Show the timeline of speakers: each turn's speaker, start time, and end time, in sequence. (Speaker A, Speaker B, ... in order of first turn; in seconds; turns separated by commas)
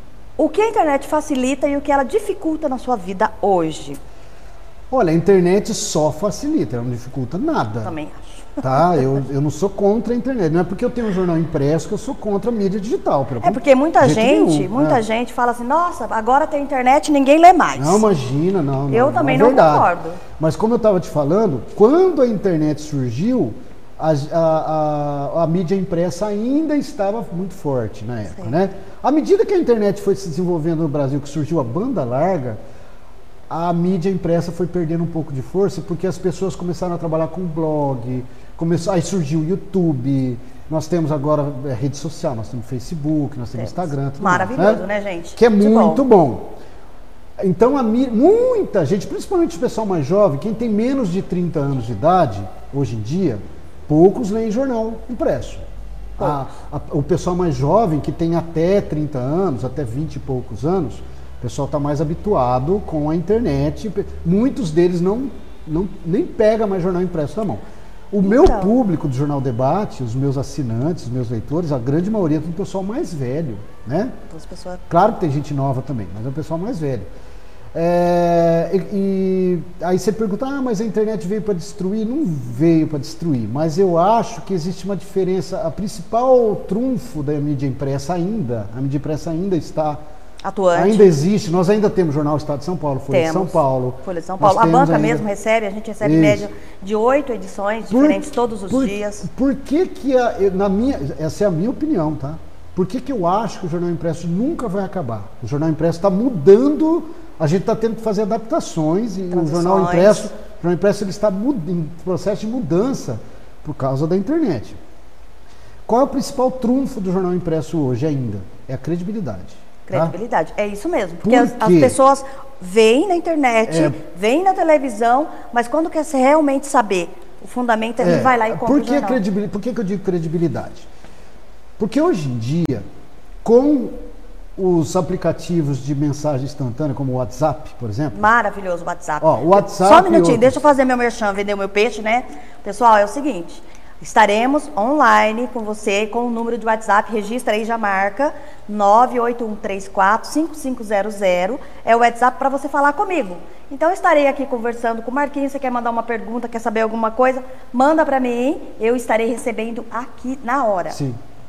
Speaker A: 0.4-4.0, Speaker B: 4.9-7.9, Speaker A: 7.8-9.0, Speaker B: 8.6-15.0, Speaker A: 13.4-18.0, Speaker B: 17.8-32.6, Speaker A: 18.9-20.2, Speaker B: 33.5-44.8, Speaker A: 43.6-46.0, Speaker B: 45.4-46.5, Speaker B: 47.4-55.7, Speaker B: 56.2-74.2, Speaker A: 68.2-68.7, Speaker A: 74.3-74.8, Speaker B: 74.9-77.1, Speaker B: 77.7-90.0, Speaker A: 90.4-91.1, Speaker B: 90.8-95.2, Speaker A: 93.1-99.3, Speaker B: 96.0-96.5, Speaker B: 97.9-114.8, Speaker A: 109.3-110.3, Speaker B: 115.9-120.1, Speaker A: 119.9-129.2, Speaker B: 121.2-122.0, Speaker B: 123.7-124.0, Speaker B: 128.0-130.9, Speaker B: 131.8-132.8, Speaker B: 133.4-134.0, Speaker B: 134.6-138.3, Speaker A: 138.1-161.0, Speaker B: 139.2-140.6, Speaker B: 160.9-161.2